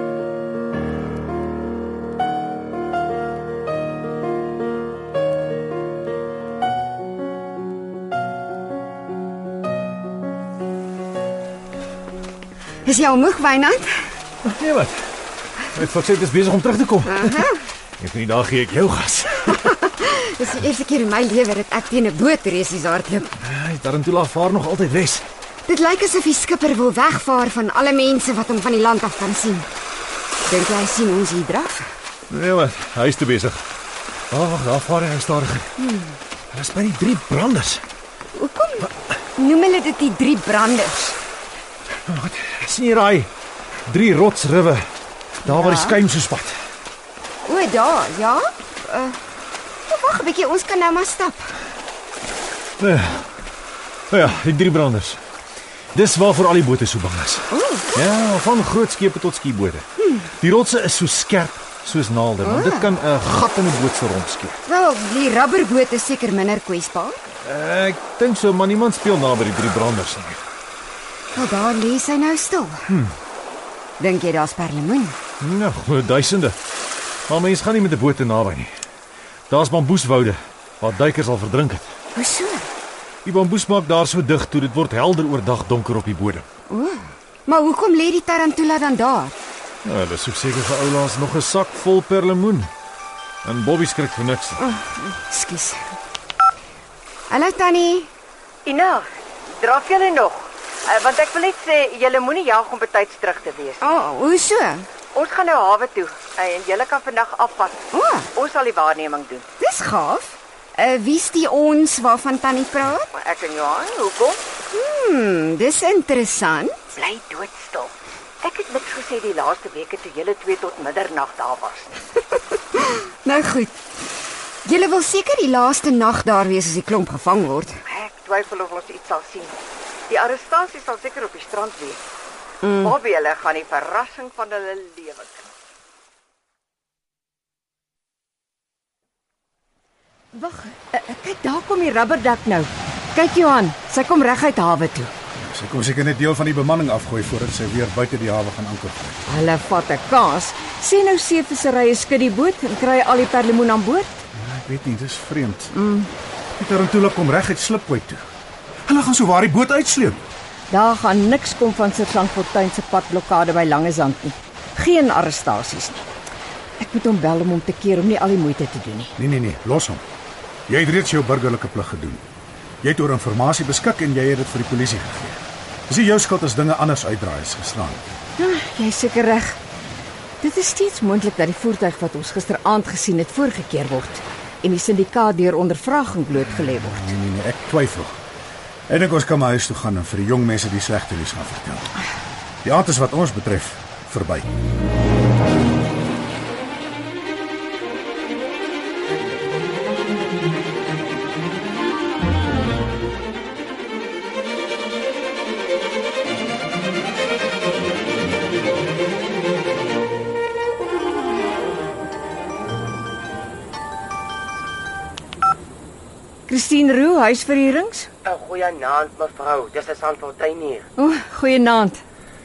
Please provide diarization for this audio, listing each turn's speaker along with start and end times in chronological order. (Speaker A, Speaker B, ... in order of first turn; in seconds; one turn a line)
Speaker A: 12.8-14.1
Speaker B: 14.4-15.0
Speaker B: 15.7-17.2
Speaker A: 17.1-17.6
Speaker B: 18.0-19.5
Speaker A: 19.5-23.3
Speaker B: 23.4-25.2
Speaker A: 25.7-29.7
Speaker A: 30.4-31.9
Speaker B: 32.3-33.6
Speaker B: 34.3-35.7
Speaker A: 35.8-36.1
Speaker B: 36.5-37.8
Speaker A: 38.3-41.2
Speaker B: 42.1-43.3
Speaker B: 43.9-44.9
Speaker A: 45.4-46.0
Speaker B: 45.5-46.6
Speaker A: 47.4-49.2
Speaker A: 49.9-51.6
Speaker B: 52.8-53.2
Speaker B: 54.1-55.2
Speaker B: 55.9-59.9
Speaker A: 57.5-58.0
Speaker B: 60.4-64.6
Speaker A: 62.4-63.0
Speaker A: 64.7-67.2
Speaker B: 67.4-70.4
Speaker A: 71.3-72.9
Speaker A: 74.0-75.2
Speaker B: 75.4-76.6
Speaker B: 77.3-78.7
Speaker B: 79.5-81.9
Speaker A: 82.1-82.7
Speaker B: 83.2-86.5
Speaker A: 86.7-89.3
Speaker B: 89.8-92.7
Speaker B: 93.4-94.6
Speaker A: 94.6-95.8
Speaker A: 97.3-98.1
Speaker C: 98.7-103.9
Speaker A: 103.8-104.9
Speaker C: 105.1-109.5
Speaker A: 107.9-108.3
Speaker A: 109.6-113.1
Speaker C: 113.1-114.4
Speaker A: 114.7-116.9
Speaker C: 116.9-122.0
Speaker A: 122.7-123.8
Speaker A: 124.6-127.8
Speaker C: 127.8-129.5
Speaker C: 130.1-132.0
Speaker A: 132.6-132.9
Speaker C: 132.8-135.5
Speaker C: 140.3-145.1
Speaker D: 145.4-149.2
Speaker C: 149.3-154.2
Speaker D: 154.3-155.7
Speaker C: 155.7-156.1
Speaker D: 156.6-158.2
Speaker D: 158.8-160.3
Speaker C: 160.7-166.1
Speaker C: 166.8-169.1
Speaker D: 169.2-170.0
Speaker D: 170.7-172.2
Speaker D: 172.8-178.2
Speaker C: 178.4-179.6
Speaker C: 180.4-187.1
Speaker D: 186.9-188.2
Speaker D: 188.9-191.9
Speaker D: 192.6-194.5
Speaker C: 216.5-218.1
Speaker E: 218.2-220.9
Speaker C: 221.0-222.0